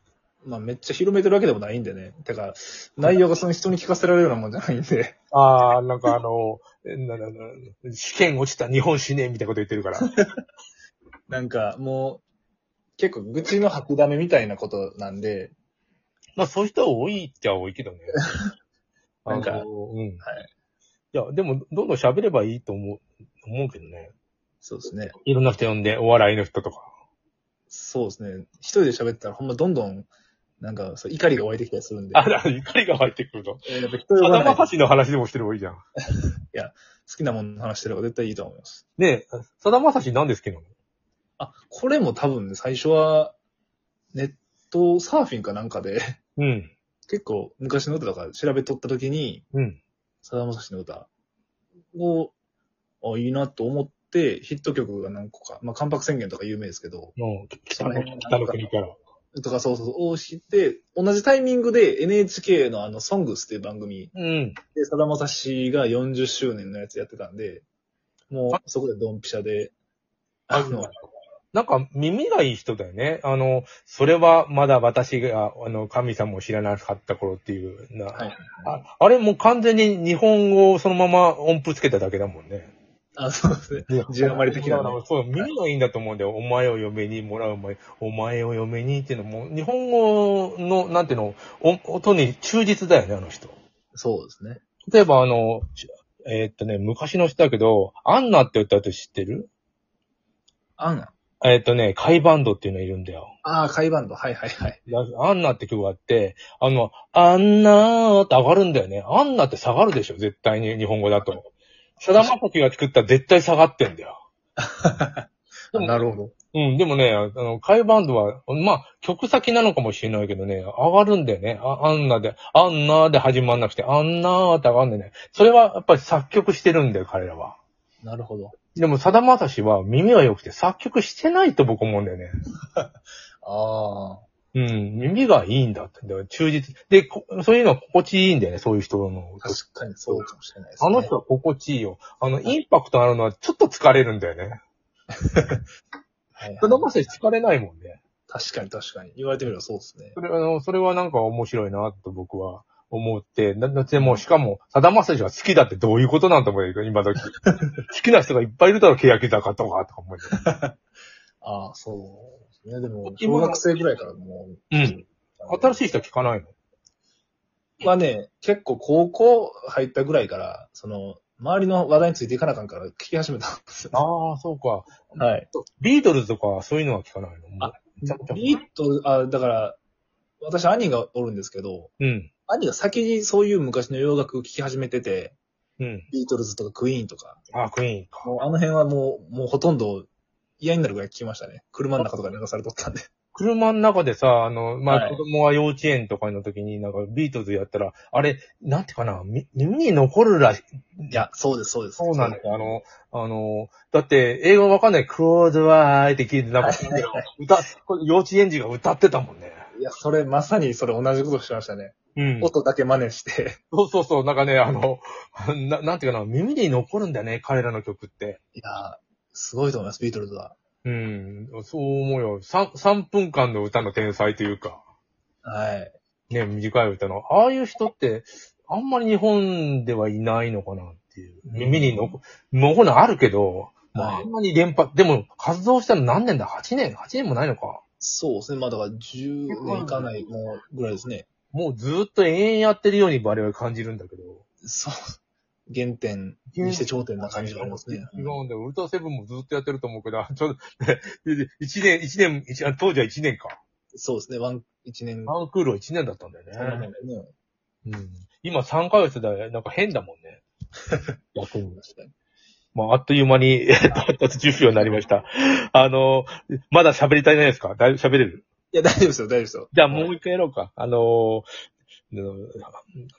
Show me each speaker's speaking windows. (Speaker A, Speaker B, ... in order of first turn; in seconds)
Speaker A: 0.4-5.2, 10.0-10.4, 11.3-12.2, 13.0-15.5, 19.3-19.7, 20.2-20.5, 24.6-25.1, 27.7-30.1, 30.6-32.3, 33.6-34.7, 36.5-38.8, 41.4-43.4, 44.1-46.2, 47.1-49.4, 50.2-51.1, 51.9-52.3, 53.0-57.1, 57.7-58.6, 59.3-64.1, 64.7-67.6, 68.3-69.7, 70.5-70.9, 78.1-78.4, 83.2-85.5, 93.9-94.6, 100.8-101.1, 103.4-104.8, 114.6-116.3, 128.0-128.5, 133.4-134.2, 139.4-141.1, 145.2-145.6, 146.4-146.9, 148.3-150.2, 154.0-154.2, 160.3-160.7, 161.4-165.9, 167.8-174.0, 175.2-175.5, 177.6-179.8, 180.4-181.9, 182.5-185.4, 186.1-187.4, 188.2-190.1, 190.6-193.0, 194.9-195.2, 201.1-202.7, 206.6-207.3, 209.7-213.6, 218.5-220.6, 225.4-225.9, 231.5-232.0, 233.9-234.3, 238.0-241.3, 244.6-244.9, 245.7-248.4, 253.9-255.3, 256.6-257.3, 261.8-262.1, 268.7-270.1
Speaker B: 5.3-10.1, 16.4-18.2, 19.2-20.2, 21.1-24.1, 25.2-26.9, 32.1-33.6, 34.2-35.8, 39.0-40.7, 46.4-46.7, 49.5-49.8, 57.2-59.0, 64.1-64.6, 70.5-71.0, 71.5-82.7, 83.9-93.5, 94.9-99.5, 101.4-103.3, 104.9-111.4, 112.0-114.2, 115.7-127.5, 128.7-132.3, 134.5-140.2, 140.8-144.6, 146.6-148.0, 150.2-160.3, 163.1-163.6, 164.7-166.5, 173.9-178.5, 182.0-182.3, 185.8-186.1, 187.5-188.3, 193.3-201.2, 202.0-209.6, 212.2-212.5, 213.7-218.4, 220.8-224.8, 226.3-237.8, 239.5-240.1, 241.5-244.4, 246.5-253.6, 255.3-256.9, 257.8-260.4, 261.3-261.8, 262.7-268.4, 269.7-271.5, 272.1-272.8